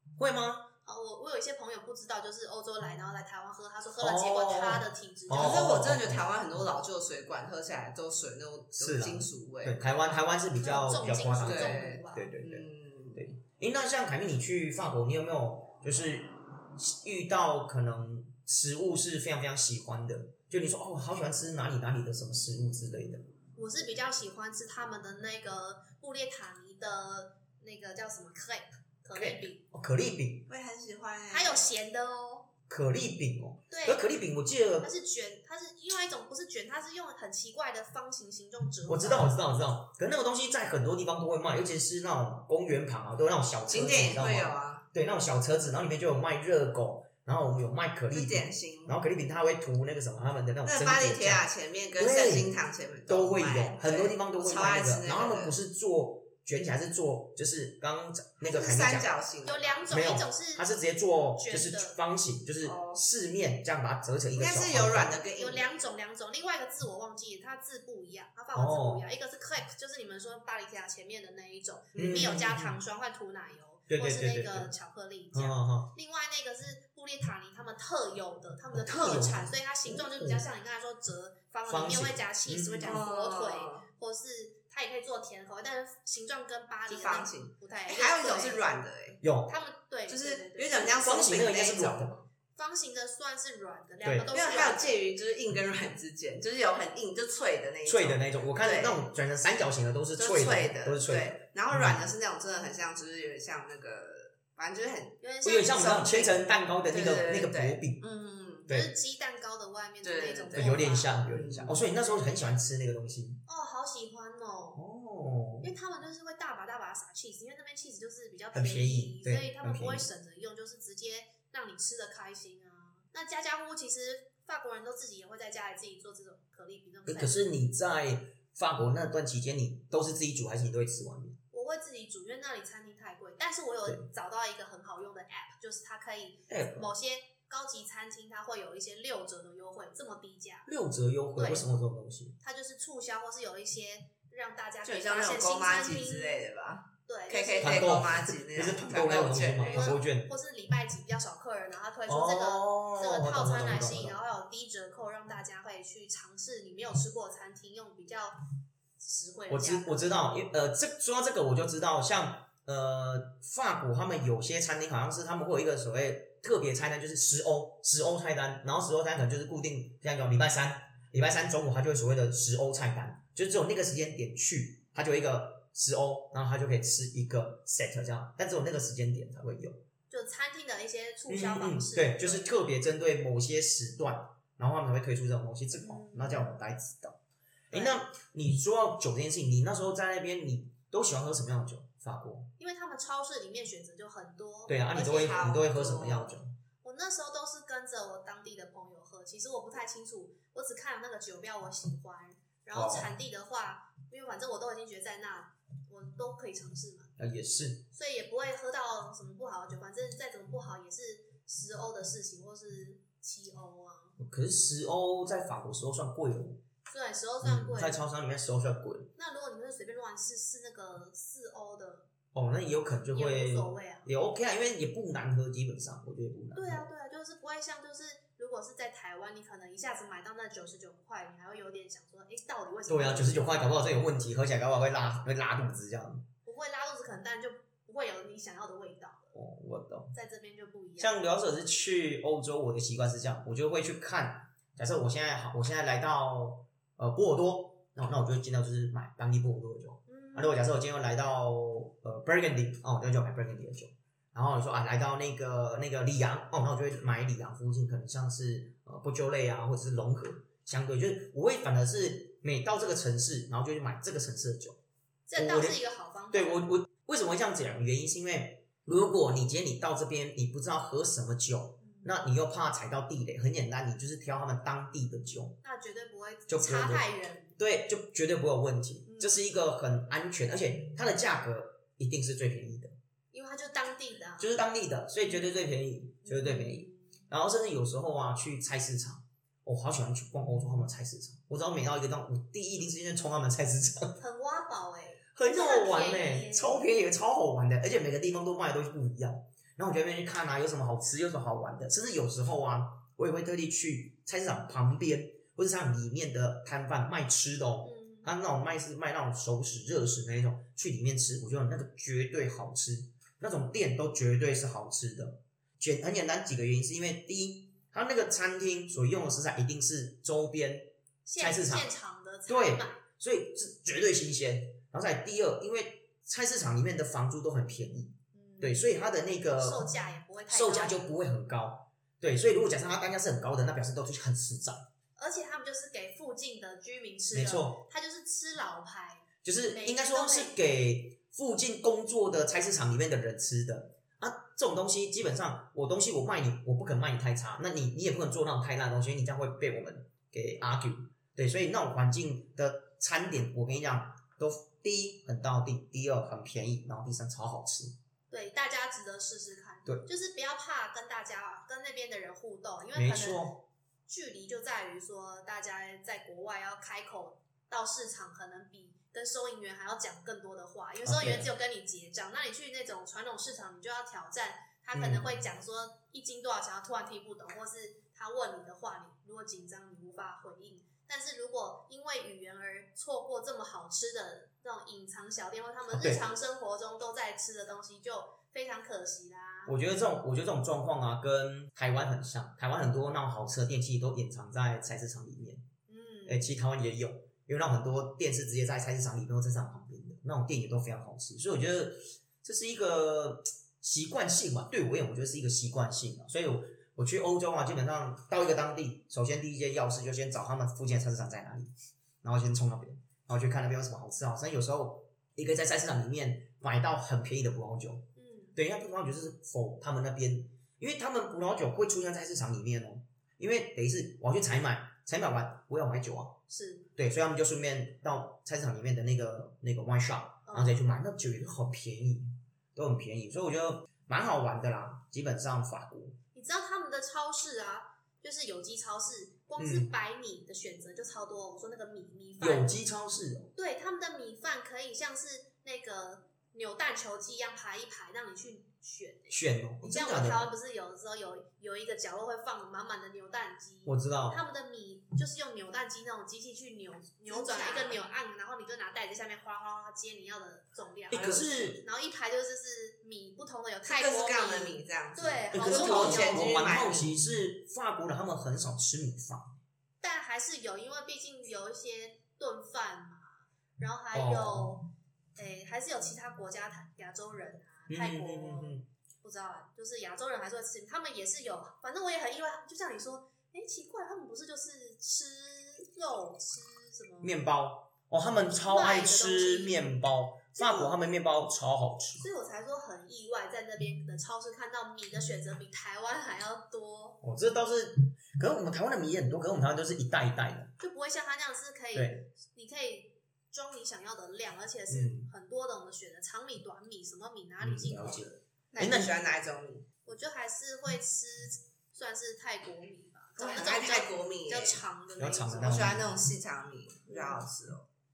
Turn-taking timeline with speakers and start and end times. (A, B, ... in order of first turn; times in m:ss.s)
0:00.2-0:00.7 A
0:00.8-0:05.7 B
0:04.0-0:06.3 A
0:05.3-0:09.8 C
0:08.8-0:23.2 A
0:10.6-0:12.3 B
0:11.4-0:13.3 C
0:23.6-0:29.6 B
0:29.1-0:30.5 A
0:30.5-0:31.6 C
0:31.3-0:32.5 B
0:32.7-0:34.9 A
0:33.7-0:34.1 B
0:34.8-0:39.4 B
0:38.8-0:51.4 A
0:43.7-0:44.8 C
0:48.1-0:49.0 C
0:50.6-0:55.6 C
0:52.0-0:52.6 A
0:53.1-0:59.2 A
0:58.4-0:59.9 C
0:59.4-1:00.8 B
0:59.9-1:05.2 A
1:01.4-1:02.0 B
1:02.6-1:03.0 C
1:04.3-1:05.7 C
1:05.4-1:28.6 B
1:08.5-1:09.0 A
1:11.9-1:12.8 A
1:13.9-1:14.7 A
1:15.3-1:15.9 A
1:18.7-1:20.5 A
1:21.7-1:23.0 A
1:22.8-1:23.8 C
1:26.9-1:29.2 C
1:29.2-1:29.6 A
1:29.5-1:31.0 B
1:30.1-1:32.1 C
1:30.9-1:32.2 A
1:32.6-1:35.0 B
1:34.0-1:34.3 A
1:34.3-1:39.0 C
1:37.8-1:42.1 A
1:40.2-1:48.7 C
1:45.2-1:46.2 B
1:45.4-1:48.0 A
1:48.7-1:51.2 B
1:50.0-1:51.8 C
1:50.5-1:53.4 A
1:51.8-1:52.4 B
1:53.5-1:54.8 B
1:54.7-1:55.7 A
1:55.6-2:07.4 B
1:58.5-2:00.1 A
2:07.0-2:11.4 A
2:11.5-2:20.7 B
2:16.5-2:16.9 A
2:20.6-2:22.3 A
2:21.4-2:21.6 B
2:22.4-2:26.4 B
2:24.8-2:30.0 C
2:27.0-2:28.0 B
2:27.6-2:30.3 A
2:29.6-2:38.4 B
2:32.1-2:34.2 A
2:39.0-2:40.1 B
2:39.5-2:59.8 A
3:00.1-3:02.6 B
3:01.3-3:07.2 A
3:05.8-3:06.5 B
3:07.7-3:12.5 A
3:07.7-3:08.0 B
3:12.6-3:15.6 B
3:14.7-3:16.5 A
3:14.9-3:16.3 C
3:16.8-3:27.1 B
3:22.7-3:23.1 A
3:27.2-3:27.8 A
3:27.9-3:34.1 B
3:34.2-3:36.6 A
3:36.9-3:38.0 B
3:37.4-3:39.1 A
3:39.2-3:42.1 B
3:42.3-3:46.8 A
3:43.1-3:44.1 B
3:46.5-3:53.7 B
3:52.9-3:56.2 A
3:56.4-3:59.4 B
3:59.3-4:00.1 A
4:00.1-4:01.2 B
4:01.0-4:24.8 A
4:10.1-4:10.6 B
4:25.3-4:26.6 B
4:25.4-4:25.8 A
4:26.3-4:35.6 A
4:31.8-4:32.2 B
4:35.6-4:37.6 B
4:36.5-4:37.0 A
4:37.6-4:42.9 A
4:39.0-4:39.4 B
4:43.3-4:44.5 B
4:44.4-4:54.2 A
4:46.2-4:47.2 B
4:54.2-4:56.9 B
4:55.3-5:21.9 A
5:07.8-5:08.3 B
5:21.2-5:23.0 B
5:22.5-5:29.9 A
5:28.3-5:28.9 B
5:29.5-5:31.0 B
5:30.5-5:34.8 A
5:35.2-5:40.5 B
5:37.3-5:37.8 A
5:39.4-5:57.9 A
5:58.3-6:29.8 B
6:02.9-6:03.6 A
6:11.0-6:11.5 A
6:14.9-6:15.3 A
6:25.9-6:26.2 A
6:29.6-6:35.6 A
6:35.9-6:36.5 B
6:36.2-6:51.7 A
6:52.2-7:06.4 A
6:58.2-6:58.6 B
7:06.5-7:06.9 B
7:07.0-7:16.2 A
7:10.5-7:10.8 B
7:16.3-7:22.7 B
7:19.6-7:19.9 A
7:22.4-7:23.5 A
7:23.6-7:46.5 B
7:29.3-7:30.5 A
7:33.8-7:34.4 A
7:37.3-7:38.0 C
7:41.1-7:41.8 A
7:43.8-7:47.1 C
7:45.5-7:49.5 A
7:50.0-8:07.4 B
7:54.1-7:54.7 A
7:57.9-7:58.8 A
8:07.2-8:12.2 A
8:08.5-8:09.8 B
8:10.6-8:10.9 B
8:12.2-8:17.2 B
8:17.2-8:20.7 A
8:20.8-8:28.3 B
8:21.9-8:22.2 A
8:24.9-8:25.3 A
8:27.6-8:29.1 A
8:28.7-8:29.8 C
8:30.0-8:35.9 B
8:33.4-8:34.8 C
8:35.2-8:36.2 A
8:35.6-8:37.8 C
8:37.1-8:37.4 B